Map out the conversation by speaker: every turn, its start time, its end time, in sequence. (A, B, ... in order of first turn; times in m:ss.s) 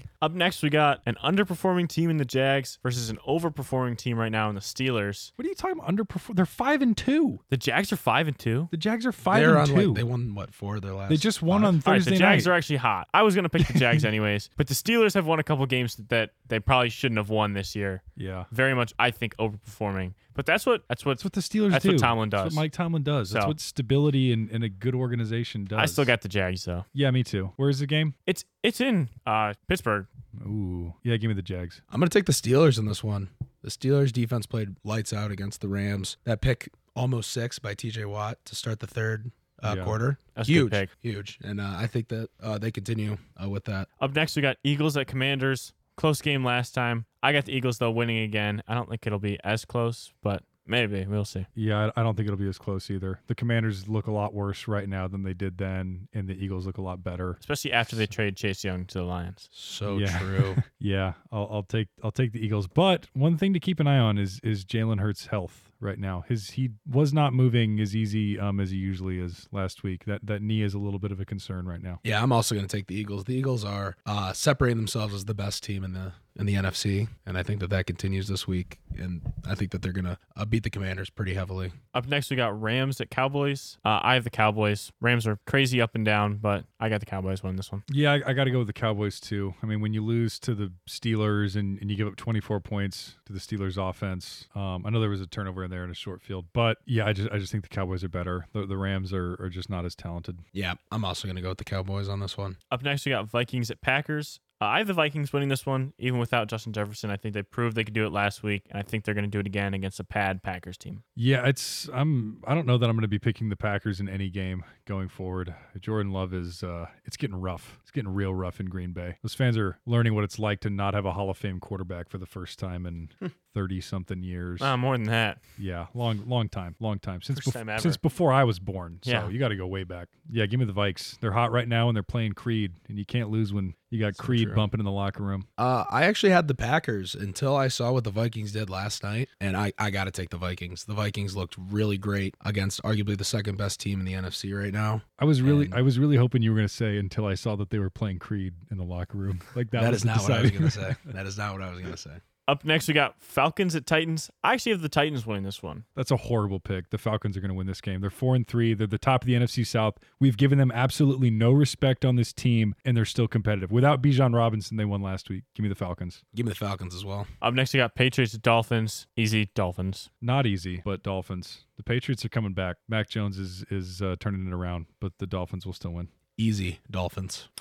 0:00.2-0:05.3 A
0:05.4-0:07.4 B
0:07.5-0:08.7 A
0:08.7-0:10.0 B
0:09.3-0:11.8 C
0:11.1-0:12.5 B
0:11.8-0:22.6 A
0:13.6-0:14.0 B
0:18.2-0:18.5 B
0:21.2-0:26.1 B
0:23.3-0:23.6 A
0:25.7-0:26.8 A
0:26.9-0:28.1 B
0:28.2-0:30.1 A
0:30.4-0:31.8 B
0:31.9-0:43.9 C
0:39.6-0:40.0 B
0:40.4-0:40.9 A
0:44.0-0:51.5 A
0:51.5-0:58.1 B
0:57.4-0:59.5 A
0:59.5-1:00.6 C
0:59.9-1:12.0 B
1:12.0-1:21.8 C
1:21.9-1:27.8 A
1:27.9-1:40.4 B
1:40.5-1:42.6 C
1:42.7-1:51.0 A
1:51.2-2:04.7 B
2:04.6-2:05.4 A
2:05.6-2:15.5 B
2:07.3-2:08.0 A
2:09.0-2:09.3 A
2:14.2-2:14.6 C
2:15.6-2:25.8 C
2:25.2-2:31.0 B
2:29.7-2:32.2 C
2:32.4-2:35.8 A
2:36.0-2:46.2 B
2:46.3-2:47.3 C
2:47.4-2:50.1 A
2:50.2-2:56.1 B
2:56.4-2:57.5 C